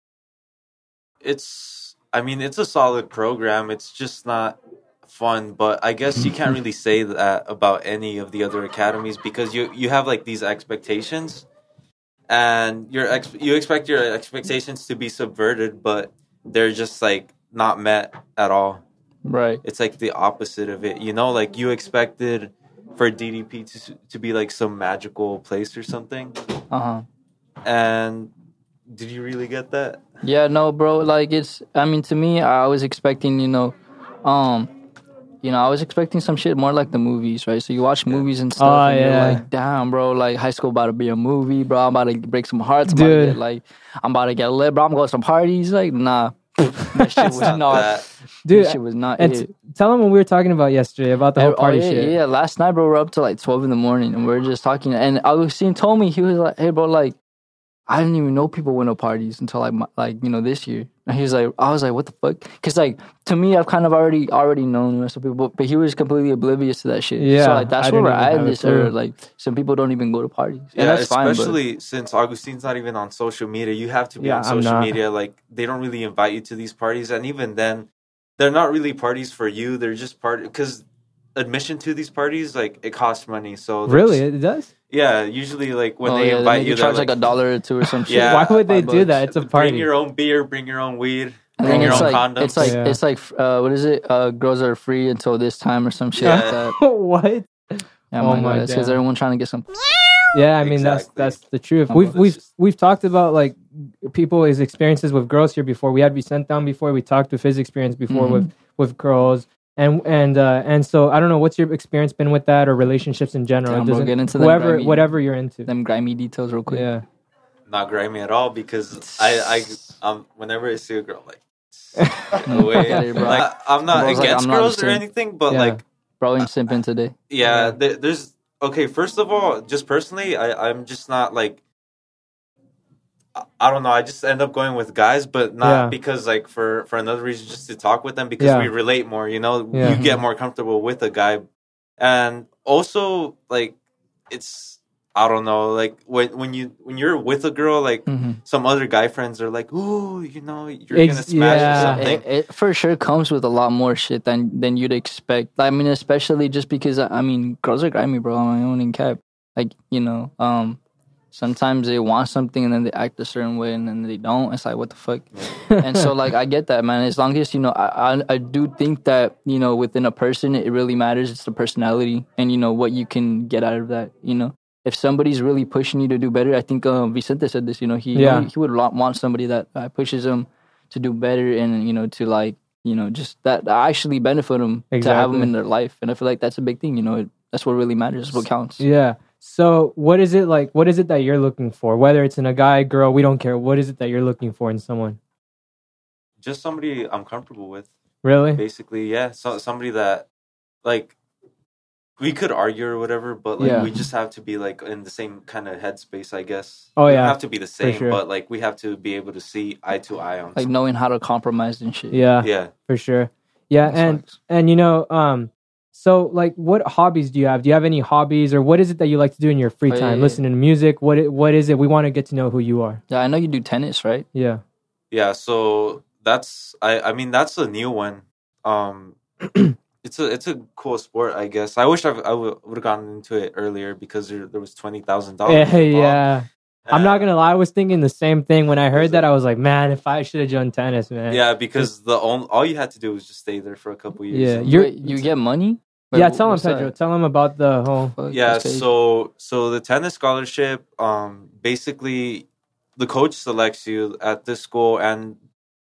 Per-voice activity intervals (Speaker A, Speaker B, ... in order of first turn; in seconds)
Speaker A: 1.2-11.5, 12.3-18.8, 19.6-26.4, 27.6-28.3, 28.9-30.0, 47.3-48.0, 70.8-77.9, 78.4-84.2, 84.9-87.1, 88.1-92.8, 96.2-96.6, 100.6-101.4, 102.0-102.4, 117.7-125.8, 127.3-131.6, 133.4-141.5, 142.0-143.8, 144.3-152.2, 196.4-197.9, 198.6-200.3, 200.8-201.2, 202.2-210.7, 212.4-212.7, 225.1-229.2, 230.0-236.2, 236.9-237.3, 238.9-239.3, 241.3-244.7, 248.3-255.4
Speaker B: 19.3-19.6, 26.7-27.1, 30.2-34.7, 35.4-49.5, 51.4-57.2, 57.9-71.6, 86.0-89.1, 91.6-96.8, 98.1-99.7, 101.9-102.2, 108.1-108.5, 113.7-115.1, 115.7-116.9, 119.0-120.0, 122.5-125.0, 126.2-127.2, 139.8-140.2, 148.1-148.4, 151.4-160.8, 161.3-188.8, 203.6-204.0, 210.6-212.2, 213.8-214.4, 219.9-220.4, 223.1-224.3, 244.6-246.9, 248.1-248.9
Speaker C: 38.6-39.4, 42.9-43.4, 47.0-47.9, 48.5-52.1, 67.2-68.9, 74.2-74.9, 83.9-84.7, 87.8-89.9, 91.6-93.0, 96.2-99.0, 100.3-115.7, 116.7-117.0, 122.0-123.4, 125.5-125.8, 127.4-127.8, 135.6-135.9, 138.4-138.7, 139.7-140.0, 150.9-152.1, 165.7-166.1, 178.2-178.5, 184.9-185.5, 188.8-195.2, 198.2-198.6, 203.6-203.9, 207.0-208.2, 212.1-223.0, 224.3-224.6, 229.5-229.8, 235.5-241.9, 244.3-245.2, 246.1-248.2